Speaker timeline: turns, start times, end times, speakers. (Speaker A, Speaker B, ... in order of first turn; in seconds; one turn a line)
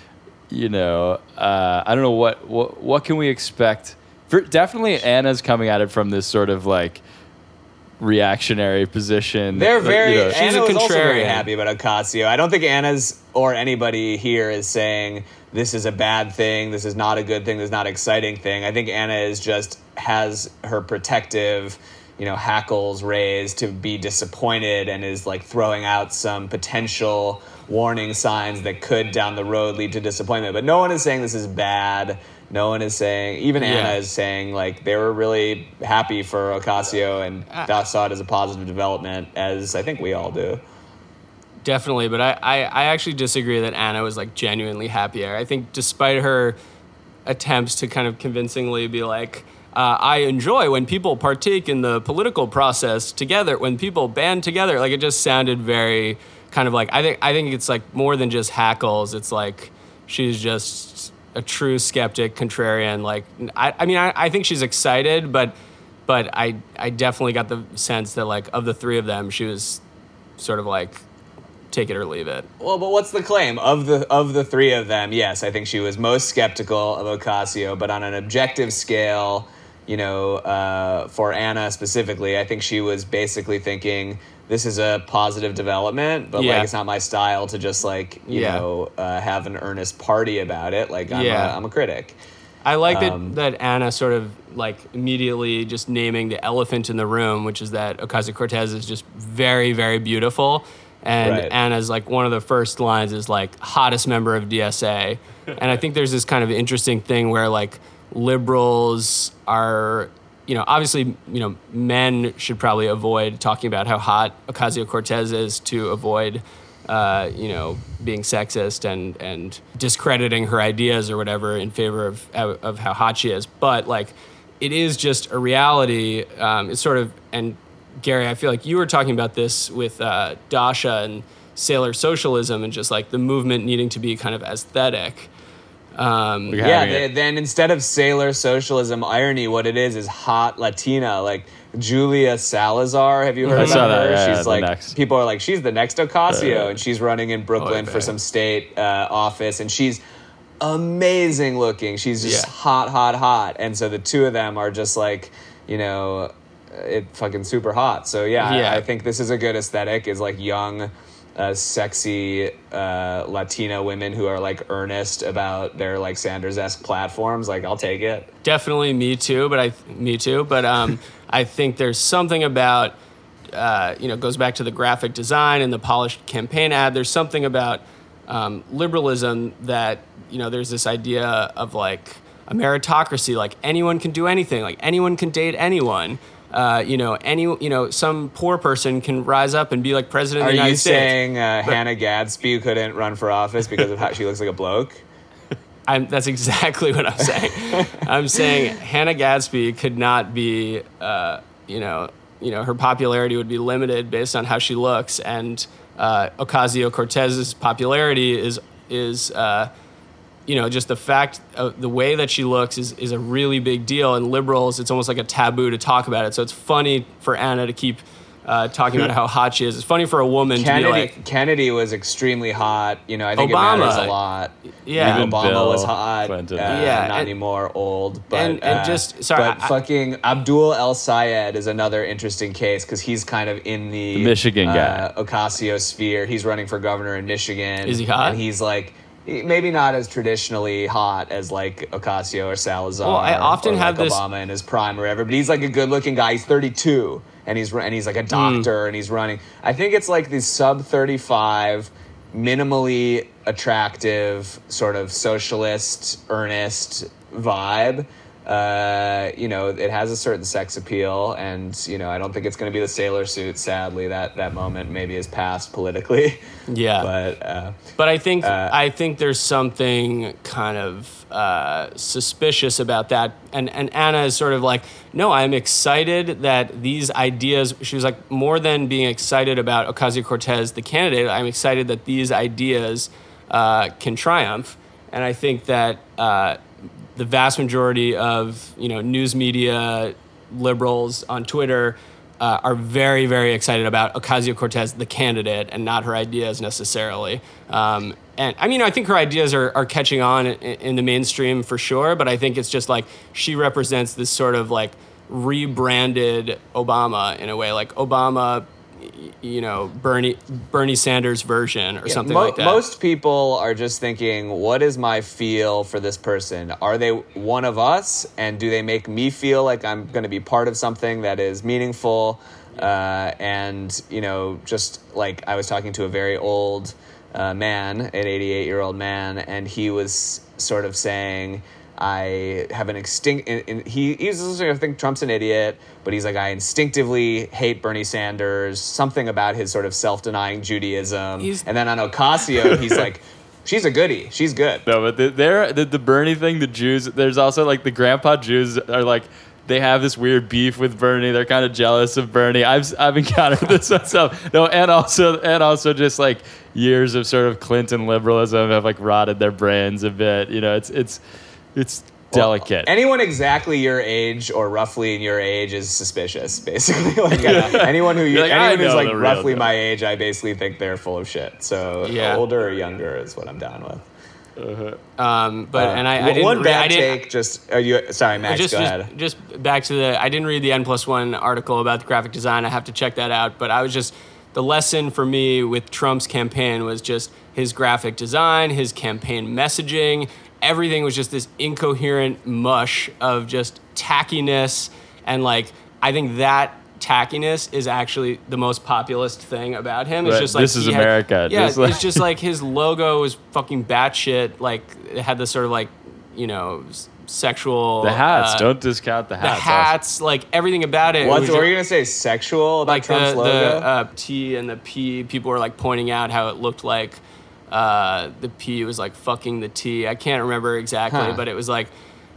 Speaker A: 0.5-7.0
Speaker A: 8.0-10.3
Speaker B: 9.5-40.6
Speaker C: 10.2-11.4
Speaker C: 33.6-34.0
Speaker C: 41.6-46.6
Speaker C: 47.2-69.8
Speaker C: 70.4-71.0
Speaker C: 71.7-72.5
Speaker B: 72.6-92.2
Speaker C: 86.3-86.7
Speaker C: 88.2-88.6
Speaker C: 91.1-91.6
Speaker C: 92.6-135.3
Speaker B: 92.8-93.3
Speaker B: 101.2-101.5
Speaker C: 135.9-136.6
Speaker A: 136.5-137.1
Speaker B: 136.6-150.0
Speaker C: 143.4-143.9
Speaker A: 143.5-144.9
Speaker A: 146.3-146.7
Speaker C: 147.6-148.1
Speaker B: 150.6-168.3
Speaker C: 152.2-152.5
Speaker C: 158.4-158.8
Speaker C: 168.4-173.0
Speaker C: 173.5-191.2
Speaker B: 190.4-195.0
Speaker C: 195.9-209.7
Speaker B: 197.7-198.0
Speaker C: 210.5-221.1
Speaker B: 220.5-266.4
Speaker C: 223.3-224.2
Speaker C: 224.8-225.3
Speaker A: 224.9-226.9
Speaker C: 226.6-227.3
Speaker C: 228.3-229.7
Speaker A: 234.1-235.1
Speaker C: 237.8-238.4
Speaker C: 243.0-244.2
Speaker C: 248.3-248.7
Speaker C: 266.7-267.1
Speaker B: 267.0-267.8
Speaker C: 268.0-286.6
Speaker B: 268.4-268.8
Speaker C: 287.1-312.8
Speaker B: 312.0-344.8
Speaker C: 341.4-341.6
Speaker A: 344.9-361.2
Speaker A: 361.7-362.9
Speaker B: 362.3-374.1
Speaker C: 367.4-367.7
Speaker A: 367.4-369.7
Speaker C: 372.0-372.4
Speaker A: 374.6-375.0
Speaker C: 375.2-377.2
Speaker B: 375.7-379.1
Speaker C: 378.5-408.7
Speaker A: 400.2-402.2
Speaker A: 408.0-409.9
Speaker C: 409.4-411.7
Speaker B: 411.2-413.9
Speaker C: 412.8-421.9
Speaker B: 421.1-421.4